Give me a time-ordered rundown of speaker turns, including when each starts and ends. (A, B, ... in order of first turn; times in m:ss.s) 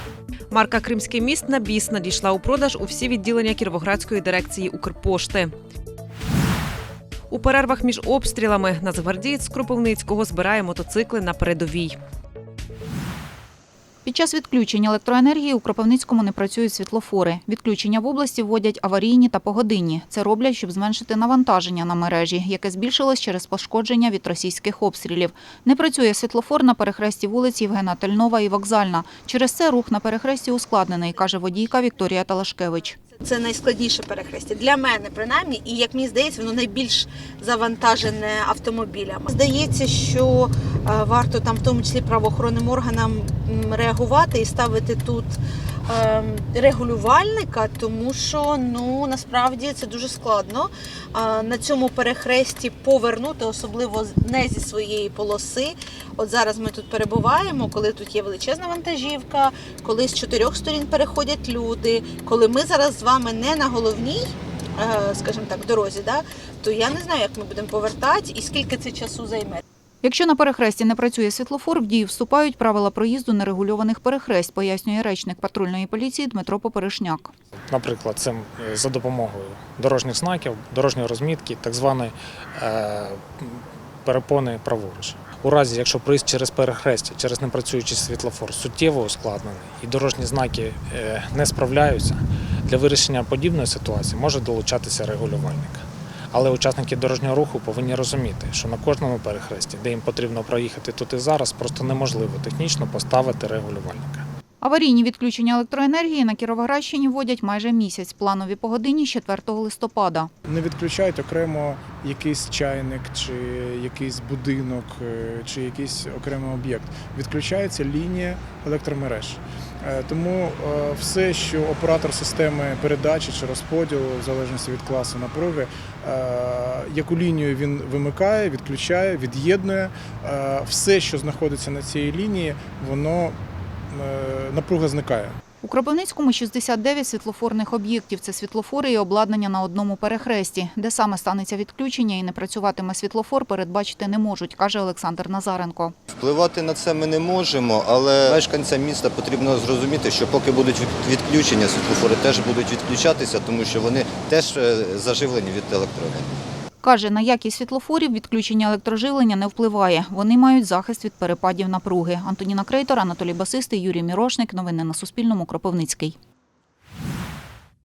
0:00.5-0:05.5 A
0:07.3-0:12.0 A
0:14.0-0:33.0 B
0:33.2-0:45.2 C
0:45.9-1:04.2 C
1:04.8-1:09.6 C
1:10.0-1:17.3 B
1:17.7-1:44.2 D
1:44.6-1:50.3 B
1:50.5-2:13.3 E
2:13.9-2:15.3 E
2:15.6-2:25.9 B
2:26.1-2:36.3 F
2:36.8-2:46.1 B